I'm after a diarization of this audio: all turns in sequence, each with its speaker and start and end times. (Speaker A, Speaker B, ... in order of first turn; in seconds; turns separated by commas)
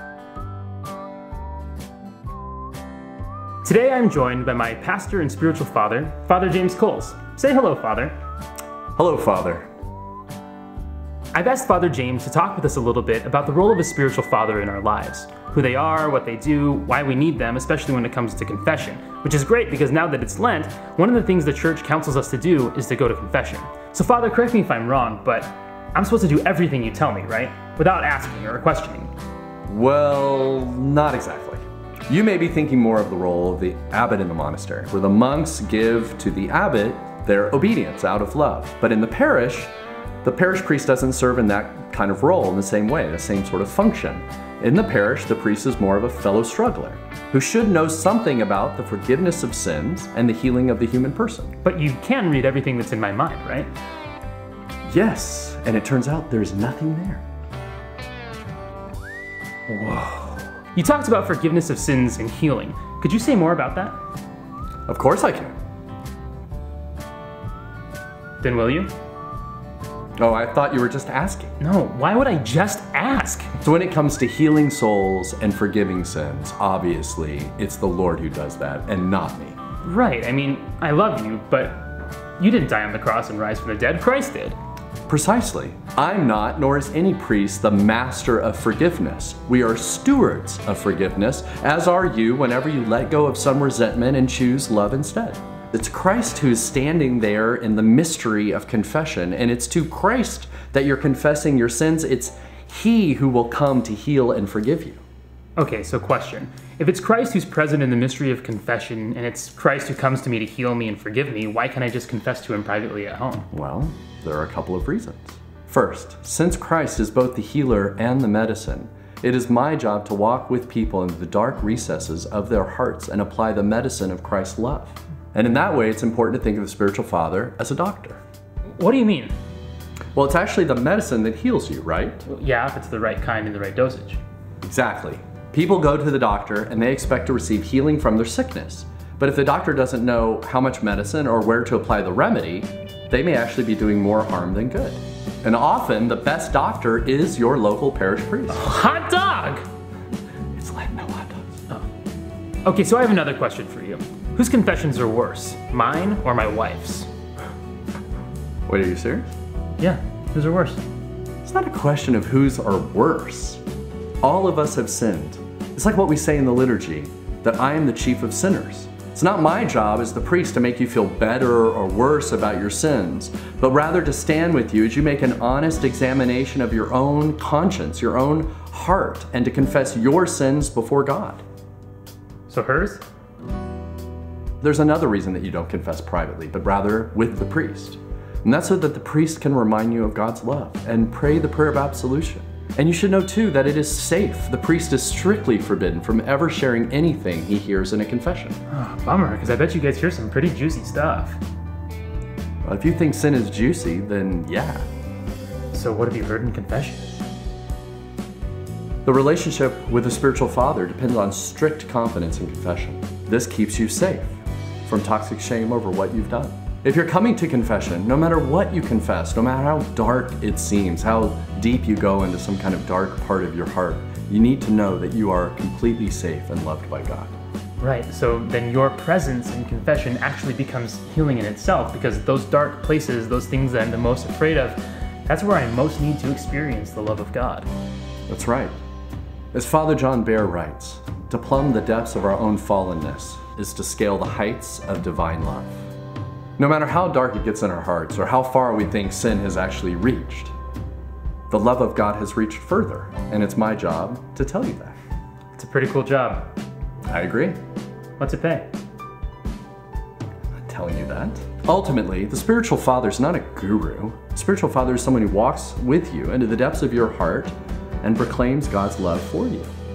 Speaker A: 3.6-8.2, Speaker B: 8.9-9.7, Speaker A: 11.3-29.1, Speaker B: 29.7-39.7, Speaker B: 40.2-51.5, Speaker A: 51.6-53.7, Speaker B: 54.9-57.2, Speaker B: 59.7-60.5, Speaker A: 60.7-64.0, Speaker B: 64.9-65.5, Speaker A: 68.4-68.9, Speaker B: 70.2-71.5, Speaker A: 71.6-73.5, Speaker B: 73.6-79.6, Speaker A: 79.8-84.6, Speaker B: 85.1-105.0, Speaker A: 105.6-113.5, Speaker B: 113.5-128.2, Speaker A: 128.8-129.3, Speaker B: 130.2-132.2, Speaker A: 132.3-134.2, Speaker B: 134.6-148.7, Speaker A: 148.5-149.7, Speaker B: 150.6-151.5, Speaker A: 152.7-157.1, Speaker B: 158.7-159.3, Speaker A: 159.8-160.8, Speaker B: 161.4-163.6, Speaker B: 164.2-181.4, Speaker A: 182.5-183.0, Speaker B: 184.6-198.6, Speaker A: 198.7-201.4, Speaker B: 202.6-204.8, Speaker A: 205.7-207.2, Speaker B: 209.1-227.3, Speaker A: 227.8-237.7, Speaker B: 238.3-238.8, Speaker B: 239.5-245.8, Speaker B: 246.6-250.5, Speaker B: 251.5-255.0, Speaker A: 255.6-256.5, Speaker B: 257.1-257.6, Speaker A: 258.2-258.7, Speaker B: 260.6-269.7